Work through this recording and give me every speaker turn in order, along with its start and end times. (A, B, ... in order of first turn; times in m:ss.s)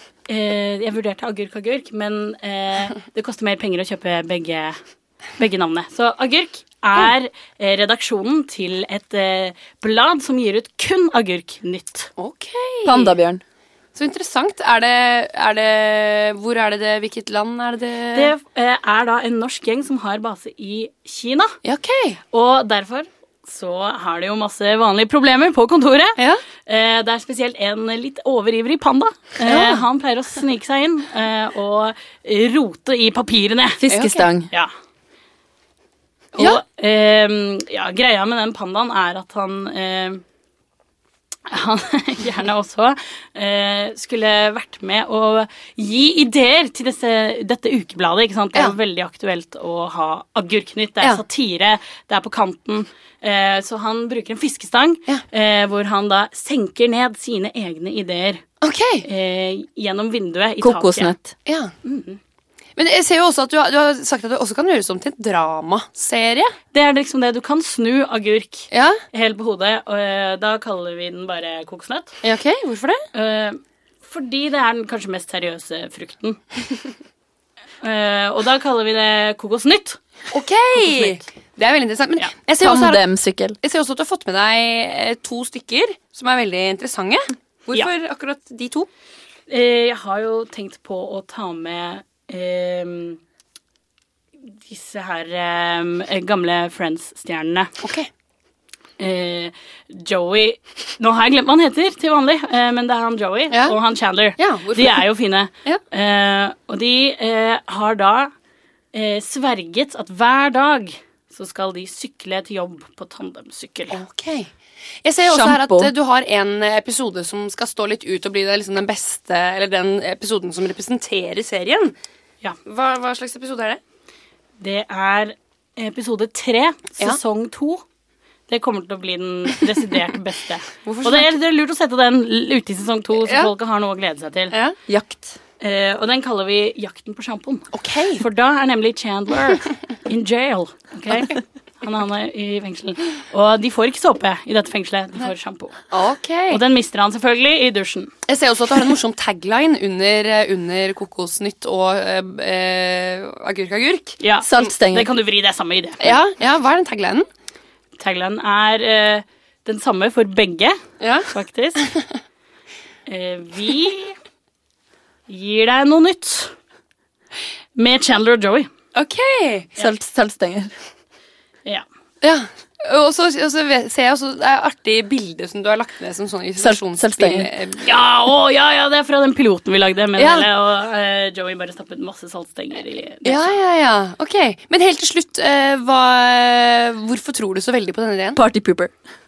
0:00.3-0:04.8 A
0:05.4-0:12.1 A
0:12.2-0:13.2 B
0:12.9-0:13.4 C
0:14.0-0:18.3 B
0:18.1-0:21.6 A
0:21.6-0:22.2 B
0:22.3-0:33.8 A
0:26.2-0:26.4 B
0:29.4-0:29.8 B
0:33.8-0:34.5 C
0:33.9-0:34.2 B
0:36.4-0:36.6 B
0:36.4-0:40.2 A
0:41.5-0:58.4 A
0:58.6-0:59.1 B
0:59.0-1:01.1 A
1:00.6-1:01.4 C
1:01.5-1:01.7 B
1:01.8-1:02.2 A
1:02.8-1:06.6 B
1:06.7-1:12.2 A
1:08.7-1:09.0 B
1:12.2-1:13.0 B
1:13.1-1:16.6 A
1:17.8-1:20.0 A
1:20.3-1:23.1 B
1:20.7-1:21.2 A
1:22.6-1:23.6 C
1:23.6-1:28.9 B
1:29.5-1:33.2 A
1:34.5-1:37.7 A
1:37.8-1:38.1 B
1:39.0-1:48.3 A
1:43.5-1:43.8 B
1:44.4-1:45.0 B
1:48.9-1:54.0 A
1:53.9-1:54.5 B
1:55.0-2:01.9 B
1:55.2-1:55.9 C
2:02.6-2:03.8 B
2:04.6-2:07.8 A
2:08.5-2:14.6 A
2:10.8-2:11.3 B
2:13.2-2:13.5 B
2:14.5-2:14.8 B
2:14.9-2:15.4 C
2:15.6-2:25.8 A
2:17.7-2:18.2 B
2:25.9-2:26.6 B
2:26.5-2:28.1 A
2:28.3-2:34.2 B
2:34.2-2:36.1 A
2:34.4-2:35.1 C
2:36.0-2:37.3 B
2:38.0-2:41.9 A
2:41.0-2:41.3 B
2:43.1-2:44.2 A
2:45.3-2:46.5 A
2:47.8-2:48.7 A
2:48.9-2:49.7 B
2:49.8-2:50.7 C
2:52.2-2:57.9 B
2:56.6-2:57.5 C
2:57.8-3:03.5 A
3:00.2-3:00.5 B
3:03.2-3:08.4 B
3:08.4-3:08.9 C